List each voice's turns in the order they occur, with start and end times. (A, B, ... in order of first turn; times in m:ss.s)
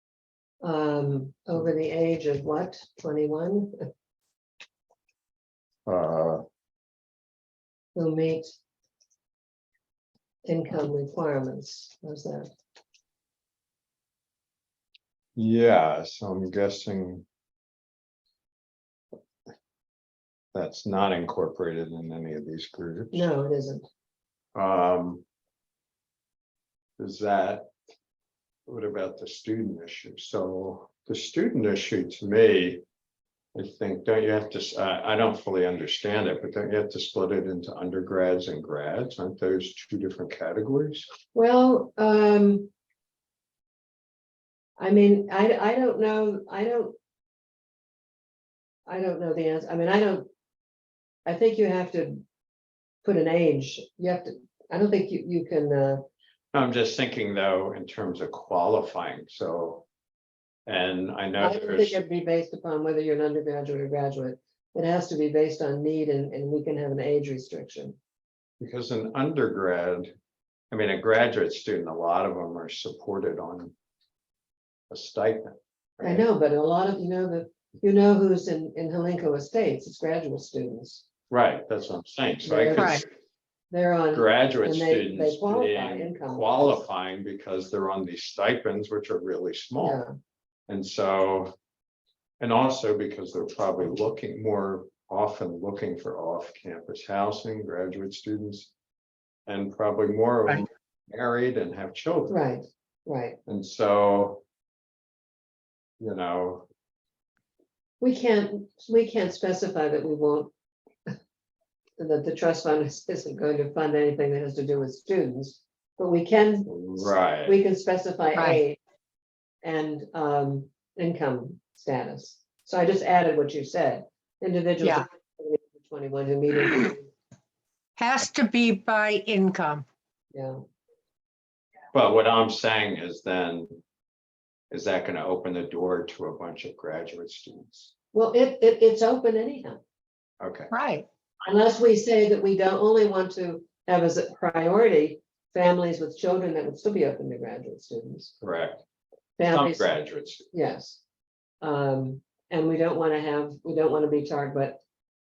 0:00.6-0:03.8 A
0:05.8-0:06.4 B
0:07.9-0:08.5 A
0:10.4-0:12.5 A
0:15.4-0:17.2 B
0:20.5-0:23.3 B
0:23.1-0:23.8 A
0:24.5-0:25.2 B
0:27.0-0:27.7 B
0:28.7-0:32.8 B
0:33.5-0:41.1 B
0:41.3-0:42.7 A
0:44.8-0:46.9 A
0:48.8-0:50.3 A
0:51.2-0:52.2 A
0:53.0-0:56.0 A
0:56.5-0:59.9 B
1:00.6-1:02.0 B
1:01.4-1:08.0 A
1:08.6-1:10.1 B
1:10.7-1:13.7 B
1:14.9-1:16.2 B
1:16.0-1:21.0 A
1:21.3-1:23.0 B
1:22.4-1:23.0 A
1:22.7-1:23.0 C
1:23.7-1:26.8 A
1:24.1-1:30.0 B
1:29.8-1:30.1 A
1:30.7-1:31.5 B
1:32.4-1:38.7 B
1:39.5-1:42.4 B
1:42.3-1:43.4 A
1:43.4-1:44.4 B
1:46.0-1:46.7 B
1:48.0-1:50.5 A
1:52.0-1:58.8 A
1:56.7-1:57.6 B
1:58.3-1:58.6 C
1:59.6-2:07.1 A
2:08.0-2:09.8 C
2:11.9-2:13.8 B
2:14.7-2:17.9 B
2:18.1-2:19.8 A
2:20.4-2:20.7 B
2:20.7-2:21.0 C
2:21.4-2:28.3 A
2:28.4-2:28.8 B
2:29.4-2:31.0 A
2:29.5-2:30.4 B
2:31.6-2:34.8 A